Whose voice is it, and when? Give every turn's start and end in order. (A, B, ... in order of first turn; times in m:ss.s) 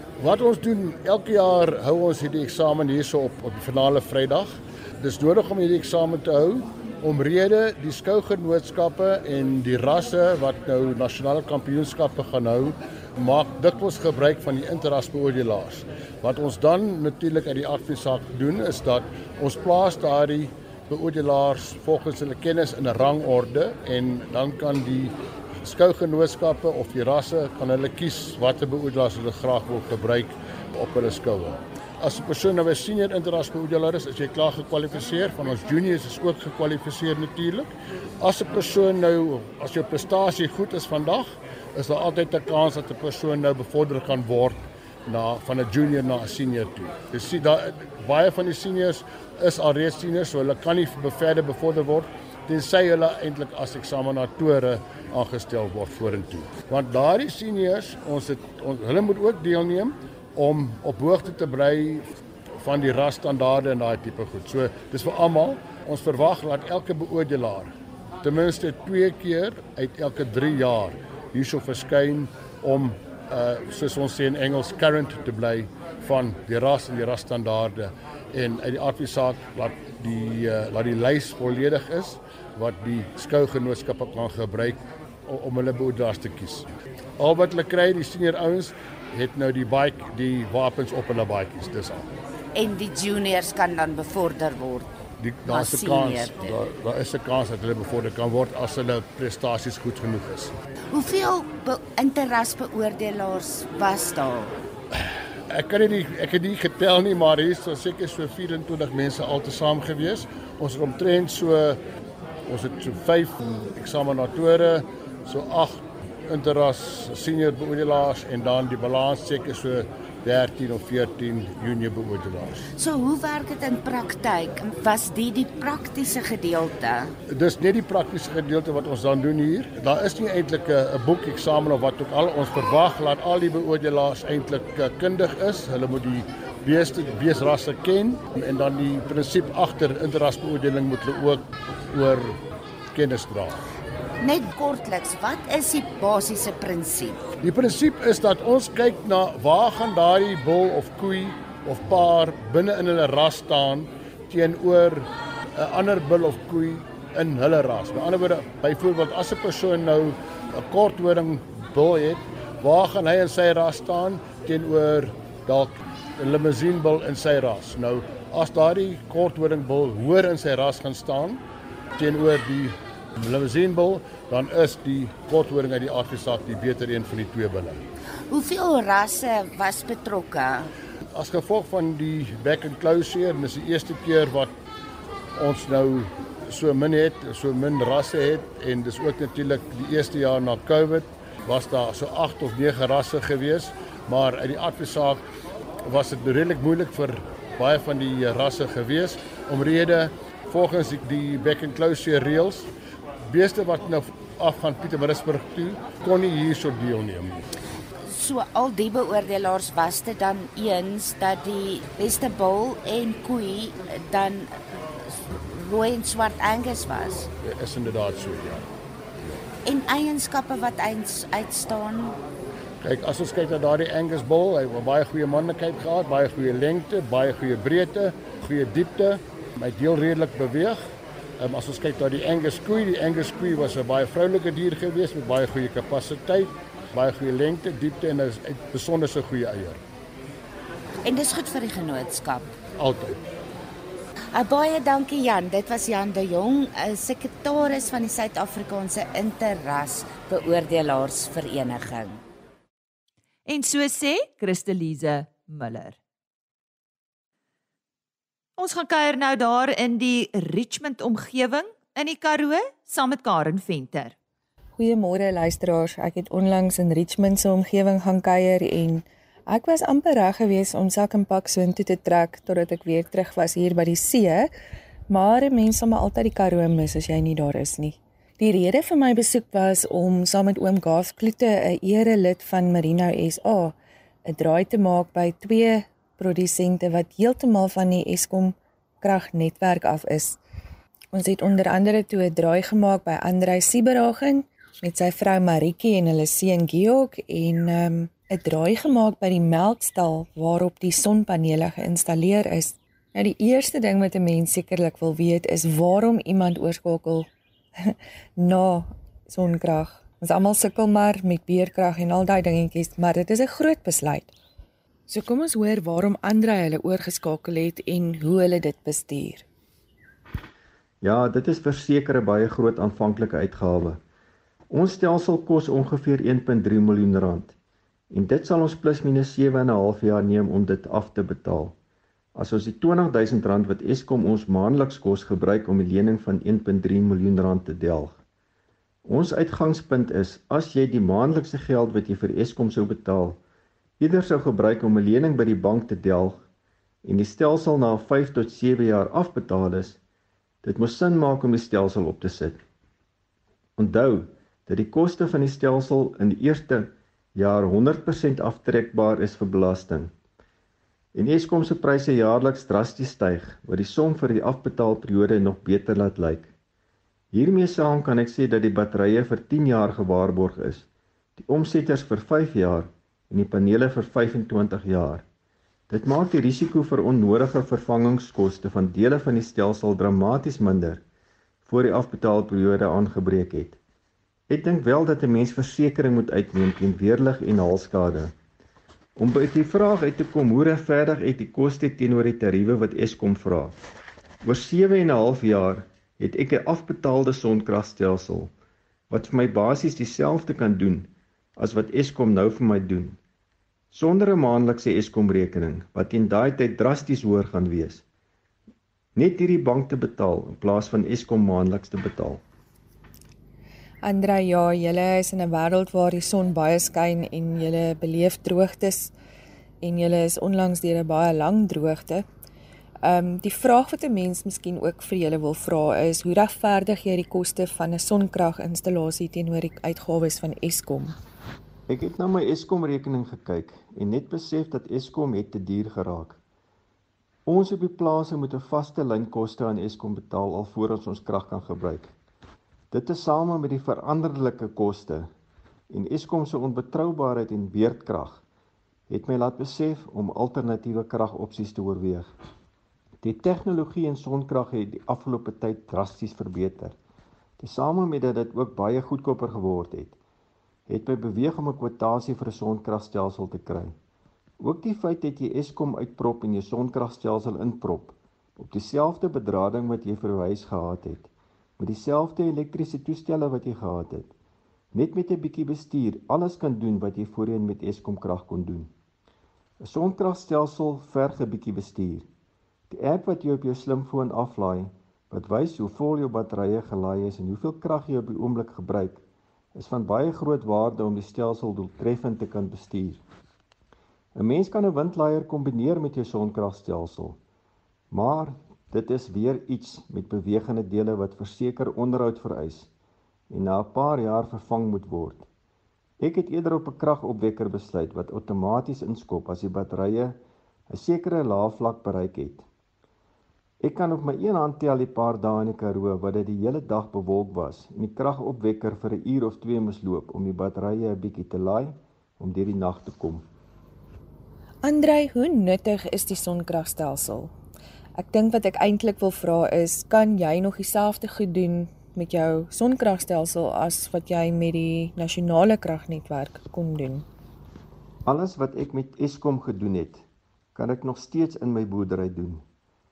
0:00.2-1:02.1 A
1:02.6-1:26.7 A
1:27.2-1:32.1 A
1:32.5-1:34.9 B
1:35.2-1:40.5 A
1:35.4-1:36.5 B
1:40.9-1:44.6 B
1:45.5-1:51.8 A
1:52.4-2:02.7 A
2:02.8-2:07.1 B
2:07.3-2:22.4 A
2:22.9-2:23.6 A
2:24.2-2:27.2 B
2:27.4-2:51.4 A
2:52.0-2:57.8 A
2:58.3-3:00.7 B
3:01.1-3:04.5 A
3:05.4-3:15.2 A
3:15.8-3:22.7 A
3:23.3-3:27.4 A
3:28.0-3:34.5 B
3:35.1-3:37.3 B
3:37.4-3:38.7 A
3:39.6-3:42.2 B
3:42.8-3:50.8 A
3:51.4-3:59.8 A
4:01.0-4:02.5 B
4:02.8-4:03.2 A
4:04.3-4:12.2 B
4:13.4-4:16.0 C
4:18.6-4:24.1 C
4:24.8-4:34.5 D
4:35.1-4:43.7 D
4:44.2-4:50.4 D
4:51.1-5:07.3 D
5:07.8-5:14.3 D
5:15.1-5:19.4 D
5:21.0-5:24.0 E
5:24.7-5:27.5 E
5:28.1-5:31.7 E
5:32.3-5:38.2 E
5:39.0-5:43.4 E
5:44.0-5:46.4 E
5:47.0-5:50.0 E
5:50.6-5:52.6 E
5:53.8-6:00.1 E
6:01.1-6:06.5 E
6:07.3-6:10.8 E
6:11.4-6:15.2 E
6:15.9-6:21.0 E
6:21.6-6:23.8 E
6:24.5-6:28.3 E
6:29.2-6:33.8 E
6:34.4-6:38.5 E
6:39.1-6:43.2 E
6:43.9-6:48.0 E
6:49.1-6:52.4 E
6:54.0-6:59.1 D
6:59.8-7:02.2 D
7:03.0-7:11.2 D
7:11.9-7:16.4 E
7:17.4-7:22.1 E
7:22.9-7:25.3 E
7:25.9-7:28.4 E
7:29.1-7:32.3 E
7:33.2-7:37.0 E
7:37.6-7:40.2 E
7:40.9-7:43.9 E
7:44.6-7:54.3 E
7:54.9-7:58.9 E
7:59.8-8:02.3 E
8:02.9-8:09.2 E
8:09.7-8:13.2 E
8:14.3-8:17.4 E
8:18.1-8:22.9 E
8:23.5-8:25.5 E
8:26.2-8:32.7 E
8:33.8-8:43.5 E
8:44.8-8:47.5 D
8:48.2-8:57.2 D
8:58.2-9:00.2 E
9:00.7-9:02.6 E